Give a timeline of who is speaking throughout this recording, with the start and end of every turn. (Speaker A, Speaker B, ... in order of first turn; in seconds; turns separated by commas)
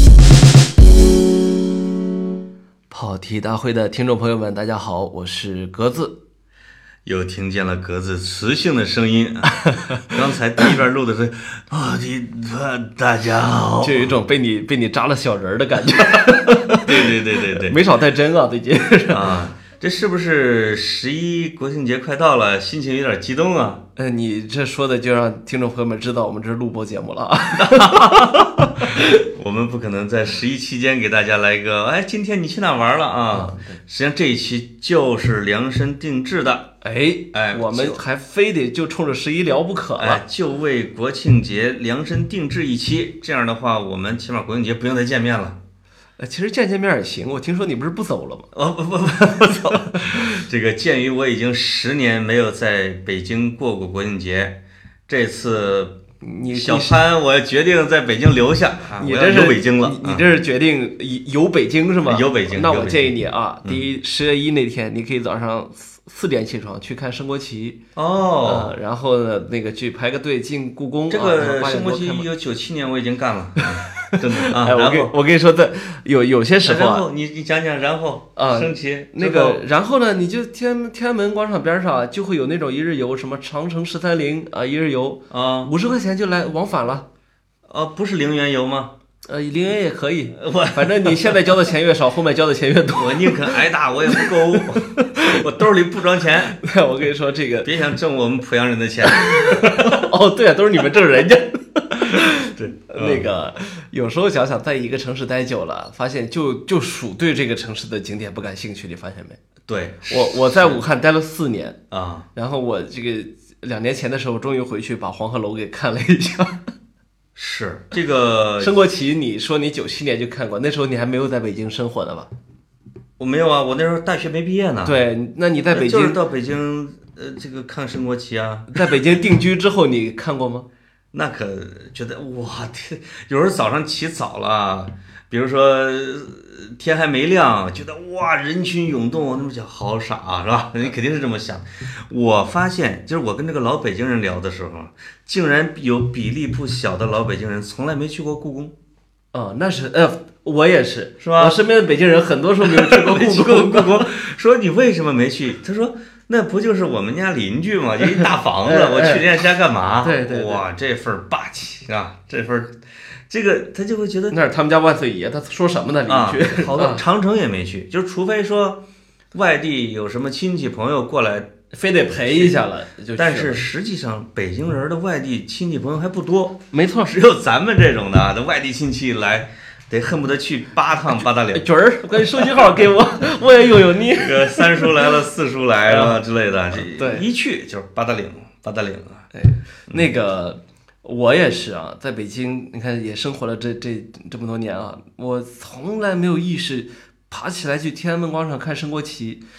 Speaker A: 2.9-6.2, Speaker B: 7.0-14.1, Speaker A: 13.8-19.3, Speaker B: 16.8-17.8, Speaker B: 19.1-23.8, Speaker A: 24.0-29.1, Speaker B: 27.6-36.7, Speaker A: 33.3-33.8, Speaker A: 36.8-40.2, Speaker B: 37.3-38.0, Speaker B: 40.0-45.6, Speaker A: 46.2-48.5, Speaker B: 48.5-56.0, Speaker A: 49.1-50.3, Speaker A: 56.2-57.0, Speaker B: 56.5-60.3, Speaker A: 59.0-67.8, Speaker B: 62.0-63.8, Speaker B: 68.0-68.7, Speaker A: 68.4-72.3, Speaker B: 71.1-75.2, Speaker A: 73.6-77.1, Speaker B: 76.6-79.6, Speaker A: 78.4-87.1, Speaker B: 85.3-85.7, Speaker B: 87.7-89.0, Speaker A: 89.3-95.4, Speaker B: 90.4-91.4, Speaker B: 93.0-96.6, Speaker A: 96.5-97.7, Speaker B: 97.6-100.0, Speaker A: 99.2-109.4, Speaker B: 102.1-103.3, Speaker B: 109.7-110.8, Speaker A: 110.1-111.8, Speaker B: 111.9-112.3, Speaker A: 112.3-116.7, Speaker B: 117.3-118.7, Speaker A: 118.6-122.3, Speaker B: 123.2-125.0, Speaker A: 124.8-126.2, Speaker B: 125.7-128.8, Speaker A: 128.7-130.7, Speaker B: 131.1-148.7, Speaker A: 149.3-154.1, Speaker B: 151.2-151.6, Speaker B: 152.6-162.8, Speaker A: 158.0-159.2, Speaker A: 160.0-160.6, Speaker B: 163.3-164.4, Speaker A: 164.3-167.0, Speaker B: 166.1-171.5, Speaker A: 171.7-173.6, Speaker B: 172.1-172.6, Speaker B: 173.1-182.8, Speaker A: 176.7-177.1, Speaker A: 181.5-185.2, Speaker B: 183.9-189.3, Speaker A: 185.9-186.2, Speaker A: 186.8-187.2, Speaker A: 189.3-199.4